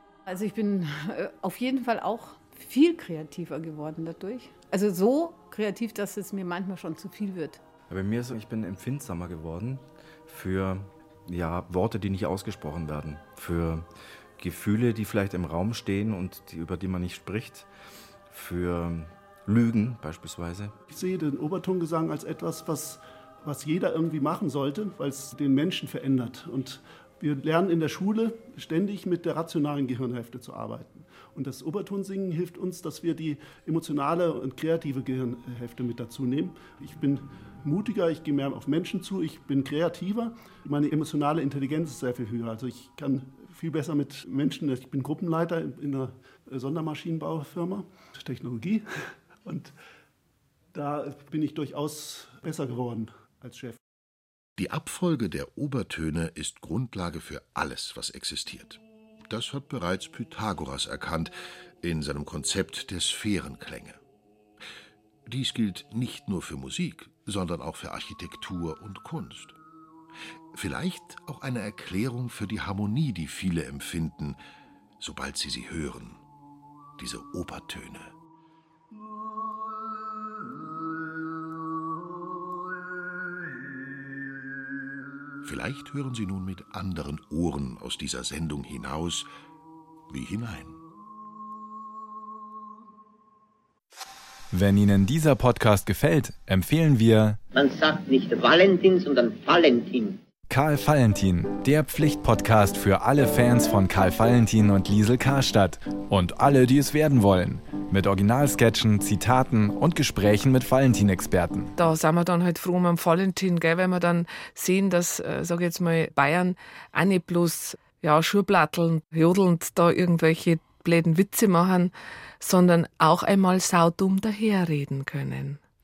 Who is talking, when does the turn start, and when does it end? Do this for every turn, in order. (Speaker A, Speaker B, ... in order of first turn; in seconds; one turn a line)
Speaker A: 0.3-7.6
Speaker B: 7.9-13.9
Speaker B: 14.4-17.7
Speaker B: 18.3-20.8
Speaker C: 20.9-49.7
Speaker C: 50.7-53.8
Speaker D: 54.6-64.0
Speaker D: 65.3-69.6
Speaker D: 70.5-74.4
Speaker D: 75.0-76.2
Speaker D: 77.0-78.2
Speaker D: 85.4-89.3
Speaker D: 90.1-90.8
Speaker E: 94.5-97.4
Speaker F: 97.5-100.2
Speaker E: 100.5-111.7
Speaker G: 111.8-125.6